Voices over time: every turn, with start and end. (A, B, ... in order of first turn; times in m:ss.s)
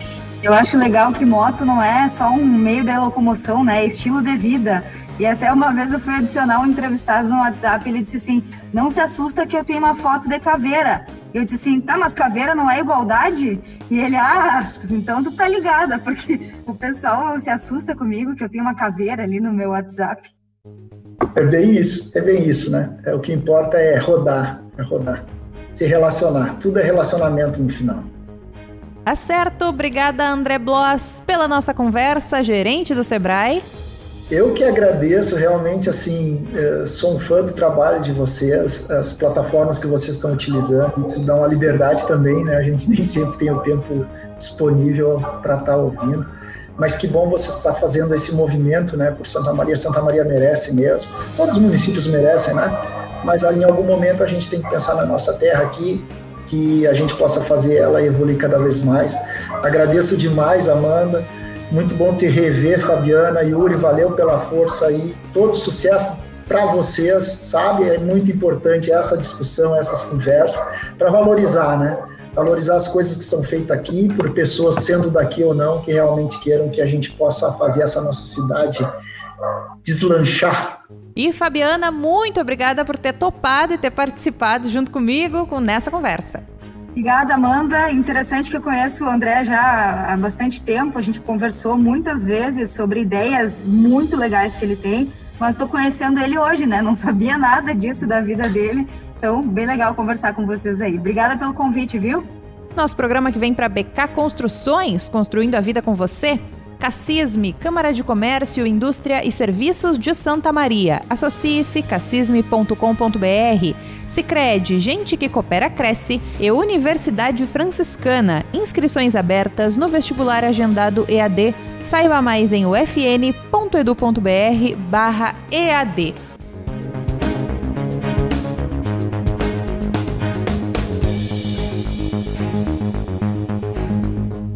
0:00.4-0:20.3 A
0:21.4-0:28.1 B
0:29.1-0:33.6 C
0:34.3-0:46.2 B
0:46.8-1:18.8 B
1:19.8-1:20.8 B
1:21.2-1:26.4 C
1:27.0-1:42.3 A
1:42.8-2:06.2 C